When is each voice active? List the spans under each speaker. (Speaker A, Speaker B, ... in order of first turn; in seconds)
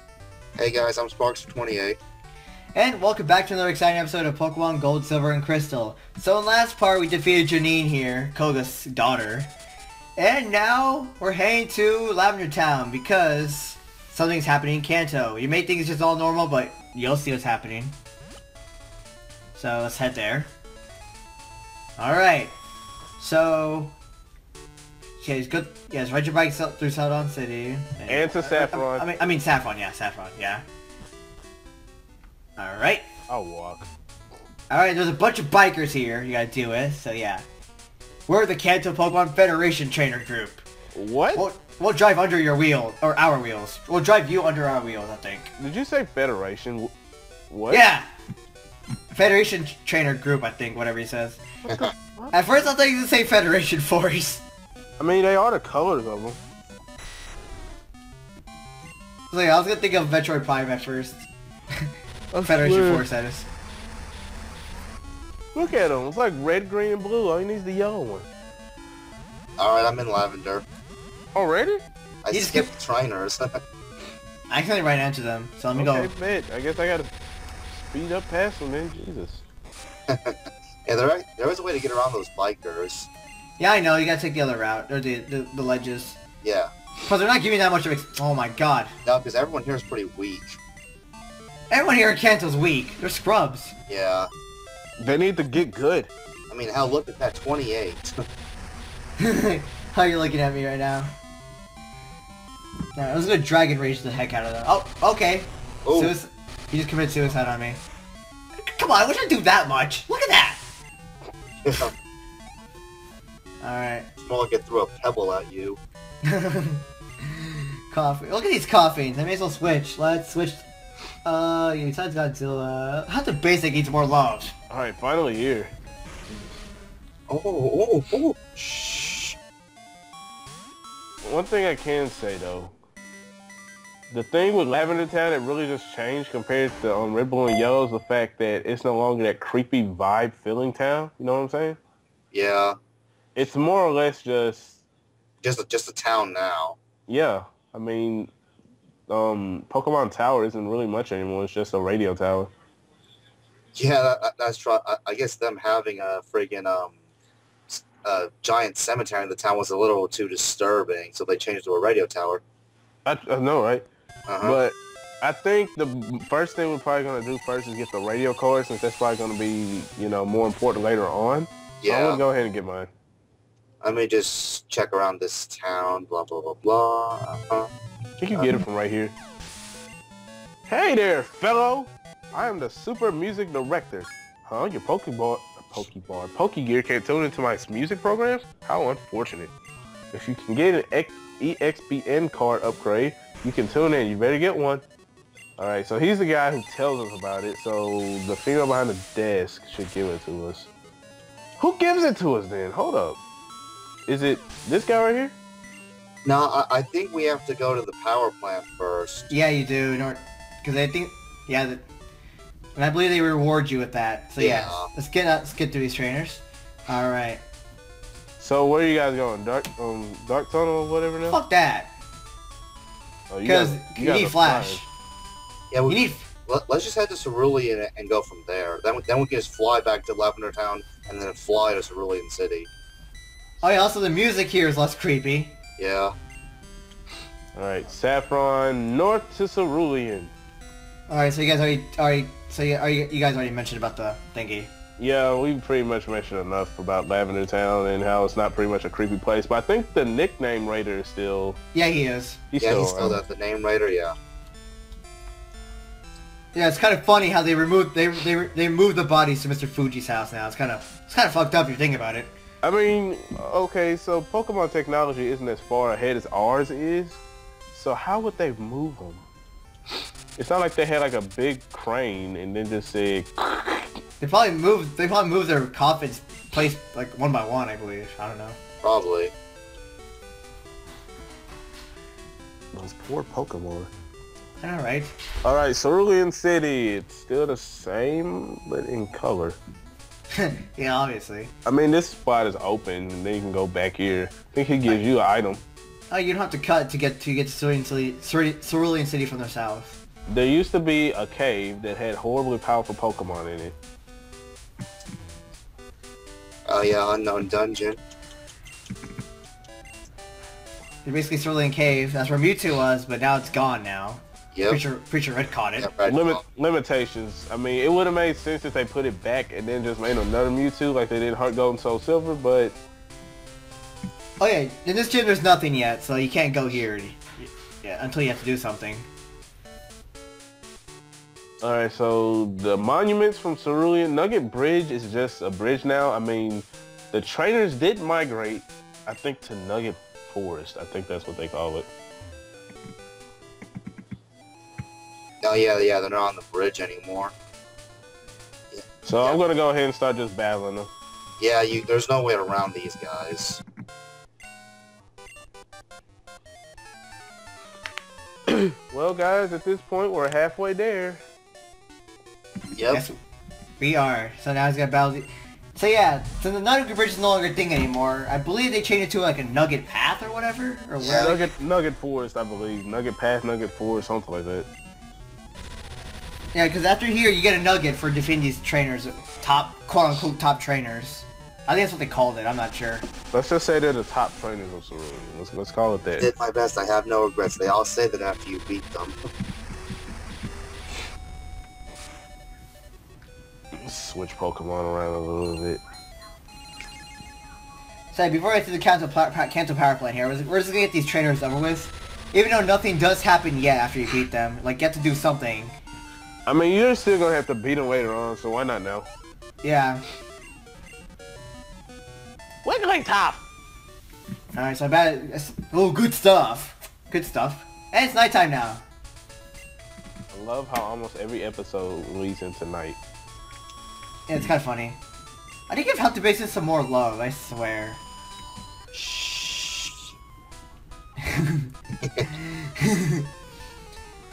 Speaker A: 0.6-2.0, 69.6-70.6, 72.2-73.5, 80.1-83.1, 86.4-86.7, 89.0-90.6, 93.9-94.3, 96.5-98.1, 105.8-106.1, 111.6-111.9, 114.2-115.8, 127.3-129.3, 142.3-142.8, 145.4-146.8, 153.7-156.9, 157.7-162.4, 164.3-164.6, 171.8-172.2, 173.8-177.7, 206.2-209.3, 214.4-214.9, 225.7-232.7, 235.8-236.1, 252.6-254.2, 278.8-279.3, 306.7-308.0, 314.5-314.8, 315.8-316.4, 345.4-347.3, 348.7-349.4, 351.4-353.6, 362.7-363.0, 371.0-371.4, 386.2-389.2
Speaker B: 2.7-9.5, 10.2-17.9, 19.5-20.5, 22.0-22.5, 23.2-23.9, 25.2-30.6, 32.6-33.0, 34.7-37.4, 38.3-40.6, 41.3-45.5, 47.7-48.1, 49.1-51.4, 52.3-54.4, 59.3-61.2, 62.4-63.5, 72.3-72.7, 74.5-76.1, 83.6-86.2, 87.0-88.9, 91.7-93.7, 99.2-101.1, 103.0-107.8, 108.7-110.6, 113.6-114.1, 116.3-116.8, 117.9-120.6, 121.2-124.5, 209.3-211.8, 212.7-217.4, 221.3-221.9, 223.4-224.9, 225.9-226.3, 233.6-235.5, 241.1-244.7, 251.7-252.4, 256.5-262.3, 274.2-278.6, 284.6-285.1, 290.4-291.5, 296.1-300.0, 311.0-315.9, 324.4-329.1, 363.8-371.4, 376.5-383.1, 398.1-405.8, 409.6-410.0, 414.5-418.8, 424.3-425.0, 425.7-428.0, 428.9-429.8, 431.3-431.7, 432.4-433.2
Speaker C: 28.1-29.2, 33.3-33.9, 40.9-41.4, 45.6-46.9, 47.5-47.8, 51.6-52.5, 55.0-56.4, 62.3-63.1, 65.5-68.3, 71.3-71.8, 75.8-77.1, 77.7-79.4, 95.0-96.1, 124.7-125.7, 131.2-132.7, 134.1-141.8, 143.3-144.8, 147.1-148.3, 149.1-152.5, 163.0-163.8, 164.4-172.9, 178.2-179.1, 180.7-189.5, 190.1-194.8, 195.6-200.7, 201.6-203.2, 204.1-205.3, 218.4-221.4, 223.3-224.8, 237.5-240.3, 245.0-251.6, 252.5-253.2, 262.6-267.2, 267.7-269.2, 270.4-273.9, 282.7-283.9, 285.4-289.6, 291.6-295.6, 300.3-303.7, 316.0-322.8, 331.6-341.9, 349.0-350.9, 358.5-361.2, 371.0-374.7, 383.3-386.3, 393.7-395.8, 406.4-409.1, 412.6-413.4, 420.3-423.0